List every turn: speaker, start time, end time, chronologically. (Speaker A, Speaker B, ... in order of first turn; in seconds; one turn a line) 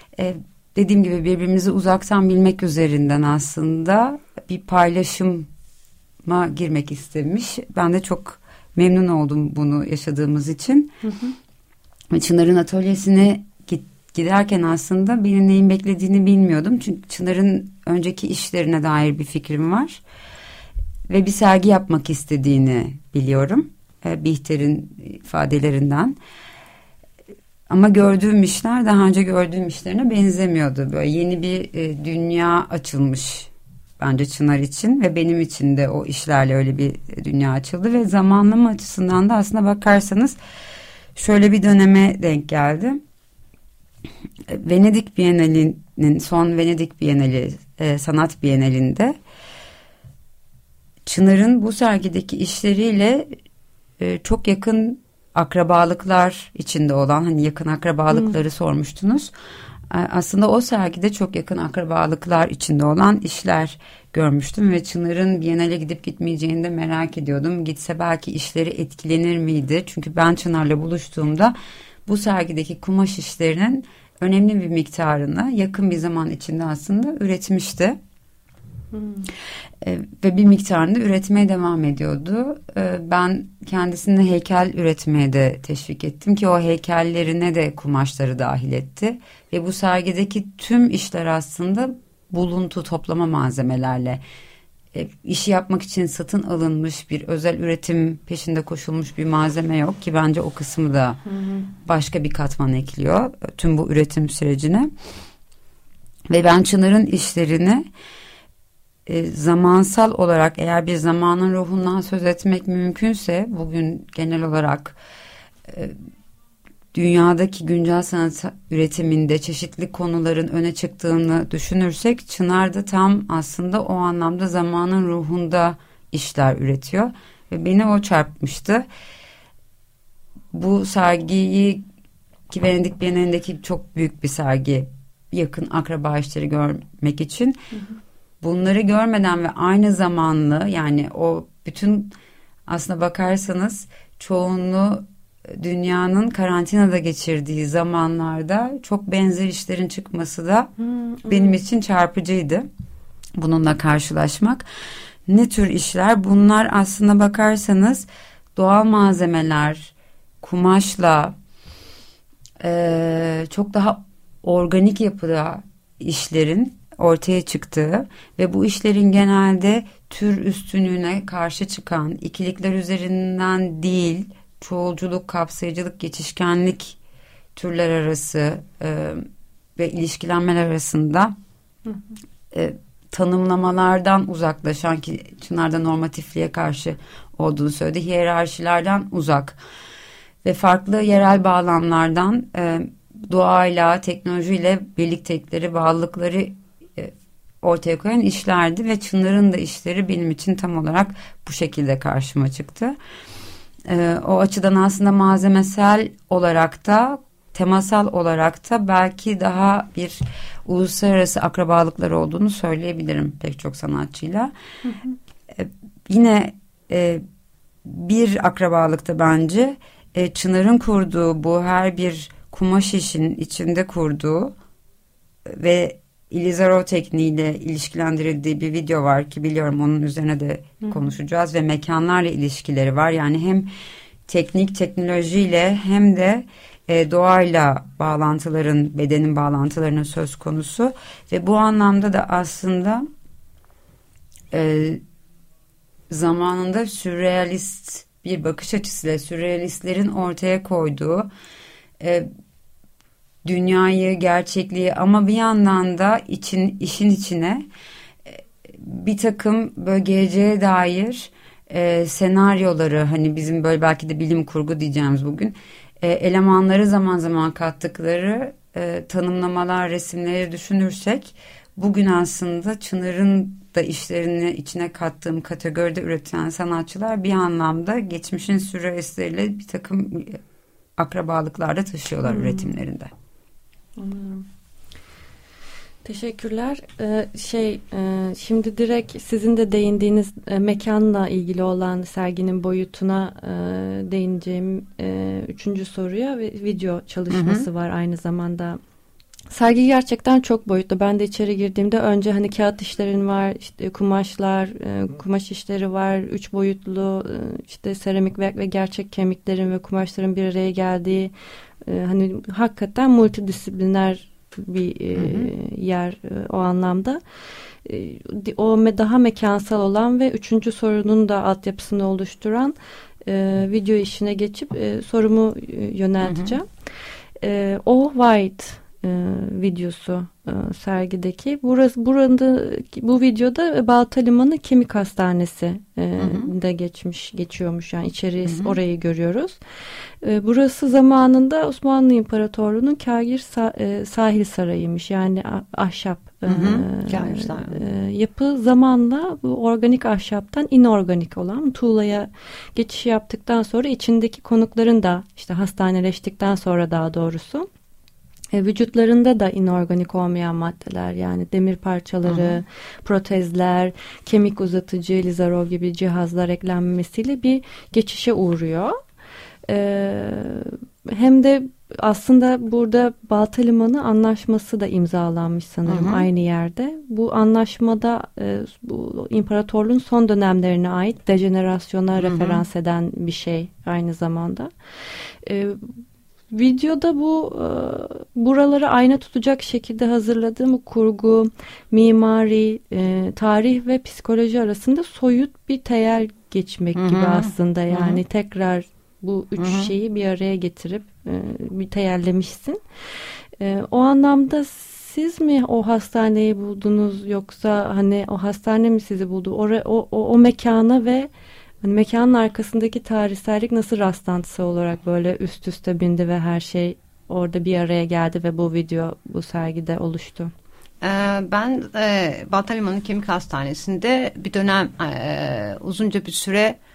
Speaker A: 0.2-5.5
Speaker A: 6.2-11.0
Speaker B: 11.0-11.3
Speaker A: 12.1-20.0
Speaker A: 21.1-26.2
Speaker A: 27.7-40.4
Speaker A: 41.1-43.0
Speaker A: 44.5-49.2
Speaker A: 51.1-53.3
Speaker A: 54.0-59.3
Speaker A: 59.9-71.5
Speaker A: 72.1-78.0
Speaker B: 78.9-79.3
Speaker A: 79.8-94.2
Speaker A: 94.9-101.2
Speaker B: 101.3-101.7
Speaker A: 101.8-104.9
Speaker A: 106.3-107.8
Speaker A: 109.1-115.0
Speaker A: 115.7-116.0
Speaker A: 116.9-128.8
Speaker A: 130.5-131.8
Speaker A: 132.5-137.7
Speaker A: 138.4-142.2
Speaker A: 142.7-150.7
Speaker B: 150.8-151.6
Speaker A: 151.3-152.7
Speaker A: 153.4-154.7
Speaker A: 155.3-161.4
Speaker A: 162.6-177.0
Speaker A: 177.6-181.4
Speaker A: 182.5-189.6
Speaker A: 190.4-203.0
Speaker A: 203.9-214.5
Speaker B: 214.9-215.1
Speaker A: 215.5-217.2
Speaker A: 217.8-224.6
Speaker A: 225.5-233.7
Speaker A: 234.3-243.1
Speaker A: 244.5-245.0
Speaker A: 246.1-251.3
Speaker A: 252.0-252.3
Speaker A: 253.4-257.7
Speaker A: 258.3-280.4
Speaker A: 281.0-283.1
Speaker B: 282.3-282.8
Speaker B: 284.0-284.5
Speaker B: 286.0-298.8
Speaker C: 297.3-297.6
Speaker B: 299.5-311.3
Speaker B: 311.9-317.2
Speaker B: 317.9-322.7
Speaker B: 323.3-326.7
Speaker C: 326.2-326.6
Speaker B: 327.4-339.6
Speaker C: 336.2-336.5
Speaker C: 338.5-338.8
Speaker B: 340.2-357.7
Speaker C: 346.5-347.8
Speaker B: 358.5-369.0
Speaker C: 362.3-362.6
Speaker B: 369.7-384.7
Speaker C: 375.9-376.3
Speaker C: 382.2-382.6
Speaker B: 385.4-385.9
Speaker B: 386.5-402.8
Speaker C: 397.0-398.2
Speaker C: 399.6-399.9
Speaker B: 403.6-411.3
Speaker B: 411.8-420.5
Speaker C: 421.0-426.8